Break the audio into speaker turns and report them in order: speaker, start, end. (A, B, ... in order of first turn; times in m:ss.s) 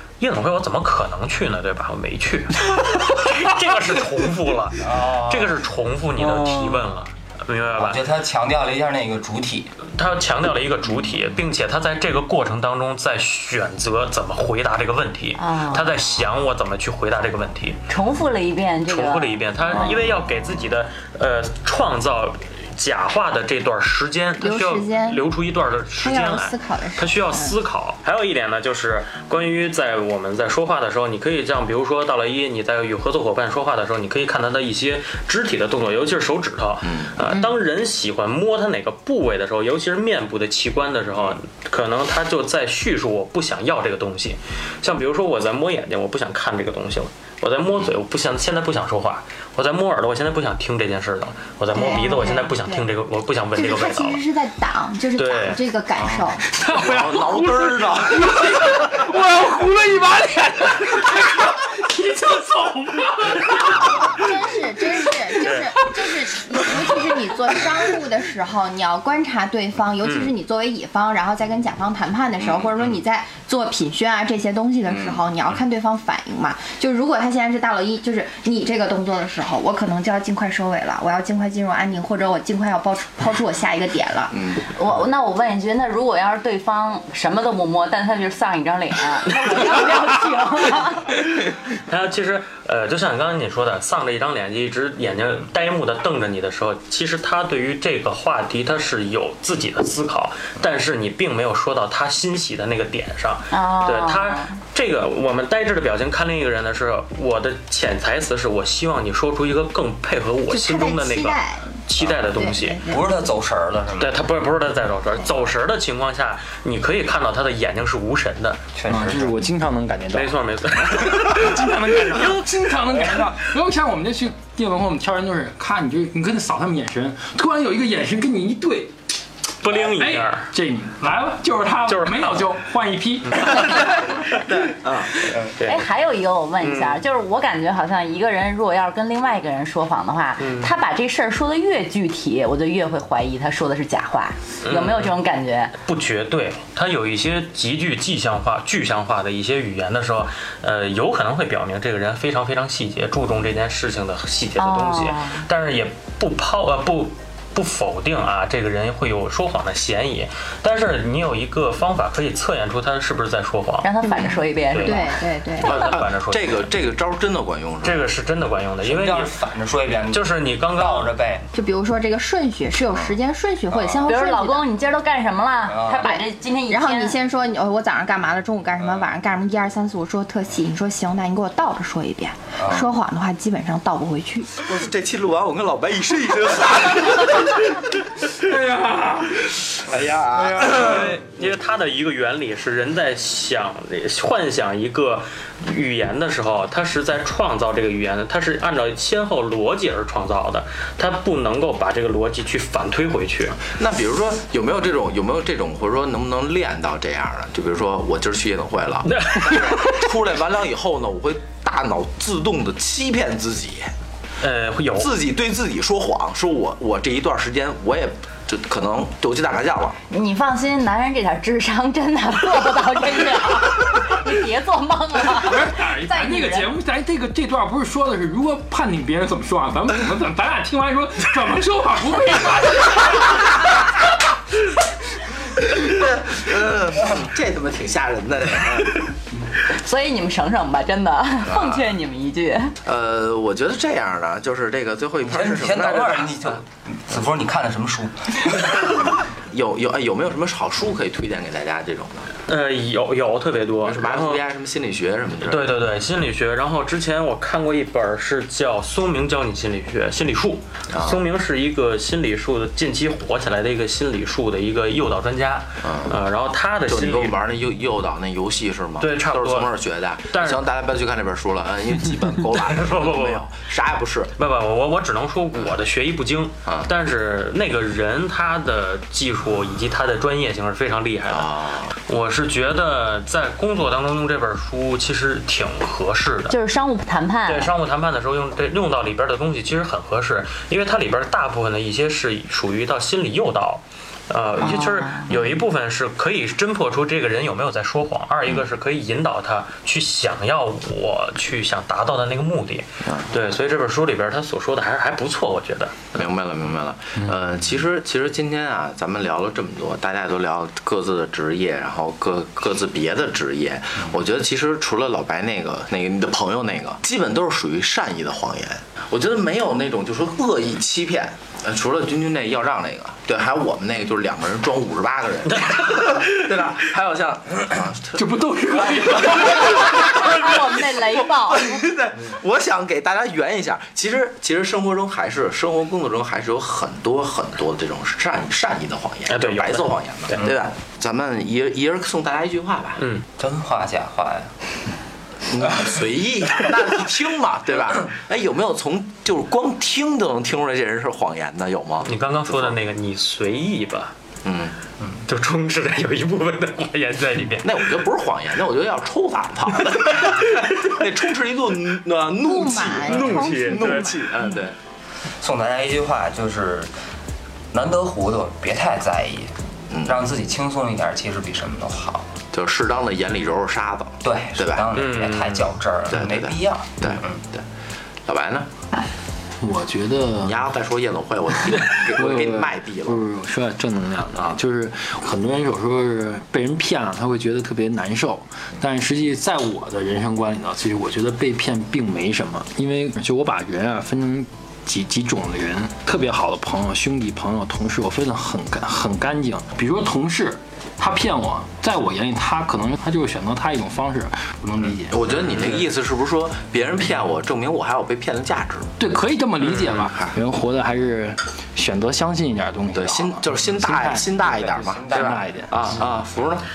0:00.2-0:08.0 A
0:04.8-0:05.6 B
0:06.2-0:06.9 B
0:07.8-0:09.7 B
0:09.9-0:17.8 A
0:15.4-0:15.9 C
0:17.9-0:19.4 C
0:18.9-0:54.2 A
0:24.4-0:25.2 D
0:26.0-0:27.6 D
0:36.8-0:37.2 E
0:37.3-0:37.5 D
0:51.7-0:52.9 D
0:53.6-0:56.5 D
0:55.2-0:55.6 A
0:56.5-1:04.3 F
0:56.7-0:59.1 E
1:03.9-1:24.4 D
1:05.4-1:05.6 A
1:10.0-1:10.3 A
1:12.4-1:12.8 E
1:14.9-1:15.3 E
1:24.3-1:24.6 E
1:24.8-1:31.1 C
1:31.7-1:52.8 A
1:43.5-1:44.6 C
1:50.5-1:53.1 D
1:52.9-1:54.2 B
1:54.0-1:58.6 A
1:58.8-1:59.4 B
1:58.9-2:08.9 F
2:00.1-2:01.6 A
2:09.6-2:10.5 A
2:09.7-2:14.4 F
2:11.9-2:12.5 A
2:14.5-2:15.3 E
2:15.6-2:15.9 A
2:15.6-2:25.8 C
2:16.6-2:17.0 A
2:20.4-2:20.7 A
2:24.6-2:25.2 A
2:25.8-2:43.9 A
2:34.6-2:35.5 C
2:43.8-2:45.1 C
2:44.7-2:46.7 A
2:44.8-2:45.9 D
2:45.6-2:48.1 E
2:47.8-2:49.4 A
2:48.8-2:51.4 B
2:50.1-2:51.2 A
2:51.5-2:54.7 D
2:53.8-2:54.1 B
2:54.0-2:57.2 C
2:55.7-2:56.1 B
2:56.0-3:04.6 D
3:02.6-3:02.8 B
3:04.6-3:08.3 E
3:08.4-3:09.5 F
3:09.5-3:11.2 E
3:10.6-3:23.6 A
3:23.7-3:33.9 E
3:29.1-3:30.0 A
3:34.4-3:35.1 A
3:35.0-3:40.0 E
3:40.1-3:46.7 C
3:45.4-3:53.6 F
3:55.6-3:59.1 E
3:59.7-4:02.8 C
4:01.5-4:01.8 E
4:02.8-4:06.6 E
4:05.2-4:08.8 B
4:09.3-4:12.3 E
4:12.5-4:14.4 A
4:13.8-4:15.8 E
4:15.4-4:27.4 A
4:20.9-4:21.3 E
4:25.8-4:26.2 E
4:26.9-4:34.3 E
4:29.0-4:29.8 A
4:30.3-4:30.6 A
4:32.5-4:33.5 A
4:34.4-4:46.6 A
4:41.3-4:41.9 E
4:46.5-4:47.7 C
4:47.5-5:06.2 A
4:54.6-4:55.3 C
5:06.1-5:28.2 E
5:28.2-5:30.0 F
5:28.8-5:43.0 E
5:29.5-5:31.8 C
5:39.3-5:40.4 A
5:43.0-5:43.2 A
5:43.4-5:44.5 B
5:45.5-5:52.8 E
5:52.0-5:54.1 A
5:54.4-5:54.8 E
5:55.3-5:57.8 A
5:57.6-6:04.8 E
6:02.4-6:04.2 D
6:03.1-6:04.1 A
6:05.4-6:06.9 B
6:07.7-6:09.5 B
6:09.9-6:10.3 E
6:10.0-6:12.3 B
6:12.5-6:14.9 E
6:14.2-6:17.4 B
6:15.0-6:15.8 A
6:16.1-6:17.7 E
6:18.3-6:18.7 E
6:19.6-6:20.6 F
6:20.4-6:23.2 E
6:21.8-6:45.2 F
6:45.1-6:48.9 E
6:49.0-6:54.3 F
6:49.6-6:50.0 A
6:52.9-6:56.7 E
6:54.4-6:55.4 B
6:55.1-6:55.7 F